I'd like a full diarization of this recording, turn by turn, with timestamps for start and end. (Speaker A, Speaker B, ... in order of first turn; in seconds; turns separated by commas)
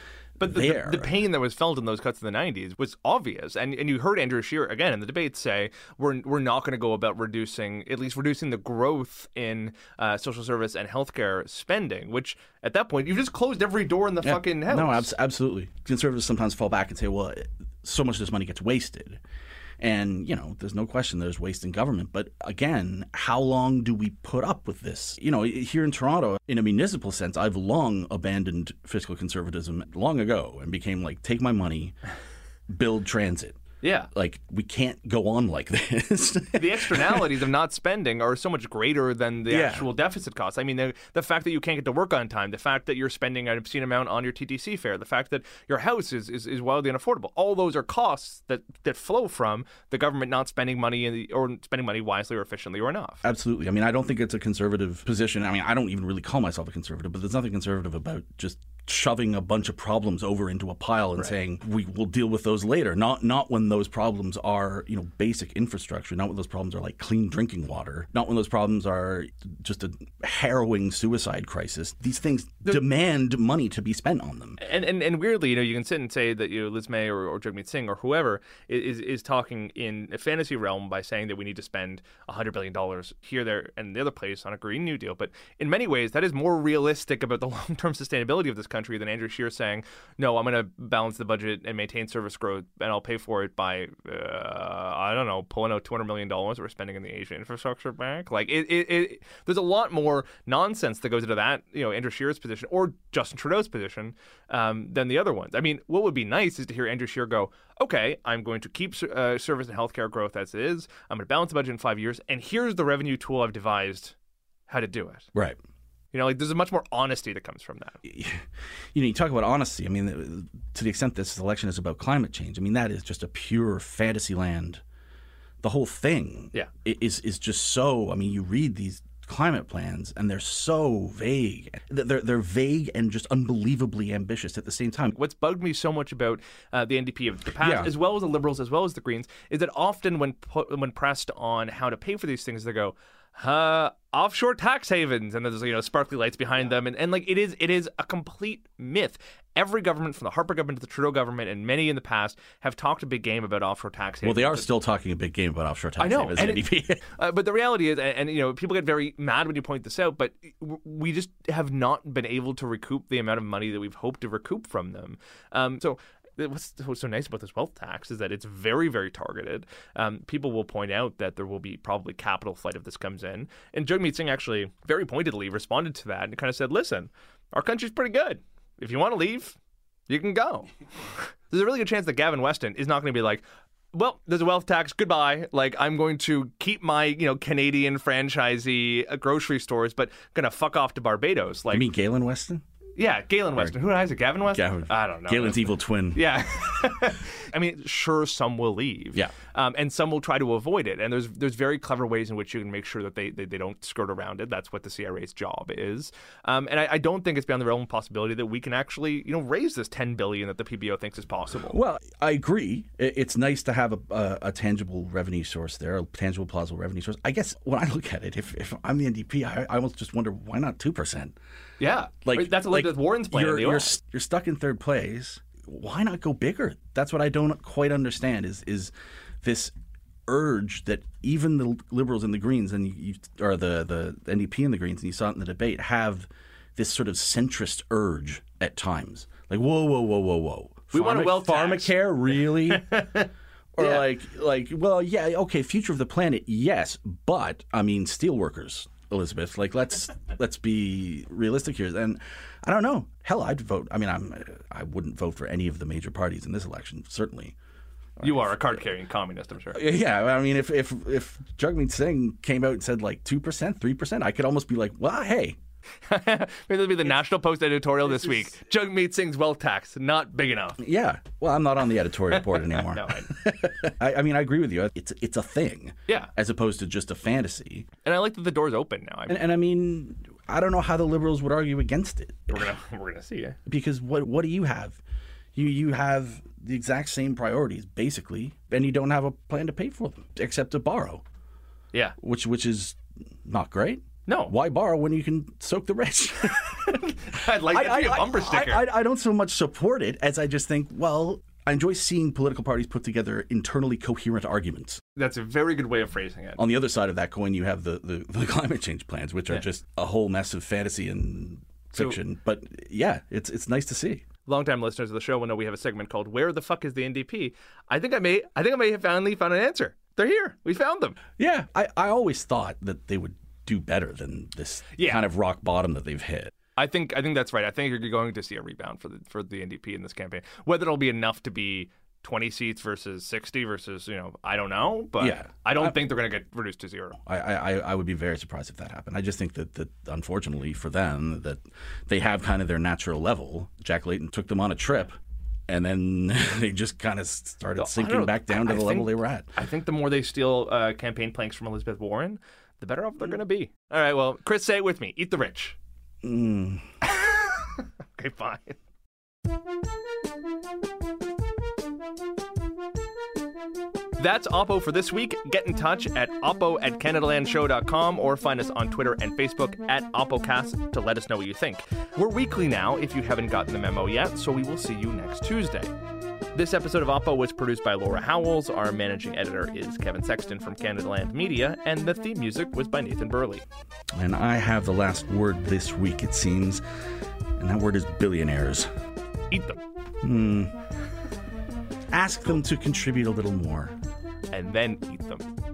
Speaker A: 0.4-1.1, Speaker B: 0.4-15.1, Speaker A: 14.2-19.2, Speaker A: 19.8-32.0, Speaker A: 32.7-33.6, Speaker B: 33.8-34.1, Speaker A: 34.1-37.3, Speaker B: 36.5-53.2, Speaker A: 39.5-39.9, Speaker A: 53.2-74.6, Speaker B: 74.6-114.1, Speaker B: 114.7-115.3, Speaker B: 116.1-118.0, Speaker A: 118.0-124.8, Speaker A: 125.6-135.2, Speaker B: 135.1-154.7, Speaker A: 137.6-137.9, Speaker A: 154.2-157.0, Speaker B: 156.0-179.6, Speaker B: 180.1-191.9, Speaker A: 191.7-192.6, Speaker B: 193.0-211.8, Speaker A: 193.5-196.5, Speaker A: 211.7-221.3, Speaker B: 221.8-223.9, Speaker A: 222.2-229.7, Speaker A: 230.3-242.9, Speaker B: 240.9-241.9, Speaker B: 242.7-244.0, Speaker A: 243.7-257.6, Speaker B: 258.2-259.8, Speaker A: 258.2-258.8, Speaker A: 259.7-265.6, Speaker B: 266.1-270.8, Speaker A: 268.0-268.5, Speaker A: 270.8-277.9, Speaker B: 272.3-273.3, Speaker B: 278.0-279.4, Speaker A: 279.3-282.7, Speaker B: 282.5-283.6, Speaker A: 283.6-285.0, Speaker A: 285.5-291.2, Speaker A: 292.2-305.0, Speaker B: 294.3-294.5, Speaker B: 296.6-298.8, Speaker B: 305.1-306.6, Speaker A: 306.6-314.2, Speaker B: 311.9-312.2, Speaker B: 314.4-321.2, Speaker A: 321.4-326.5, Speaker B: 324.9-325.2, Speaker B: 326.8-337.2, Speaker A: 335.2-336.1, Speaker A: 337.2-345.2, Speaker A: 345.7-349.5, Speaker B: 347.8-355.8, Speaker A: 356.2-356.8, Speaker B: 357.0-358.8, Speaker B: 364.2-375.9, Speaker B: 376.5-383.6, Speaker A: 384.1-386.8, Speaker A: 387.6-388.9, Speaker B: 389.5-389.8, Speaker A: 390.2-390.8, Speaker A: 392.1-393.9, Speaker B: 394.5-395.5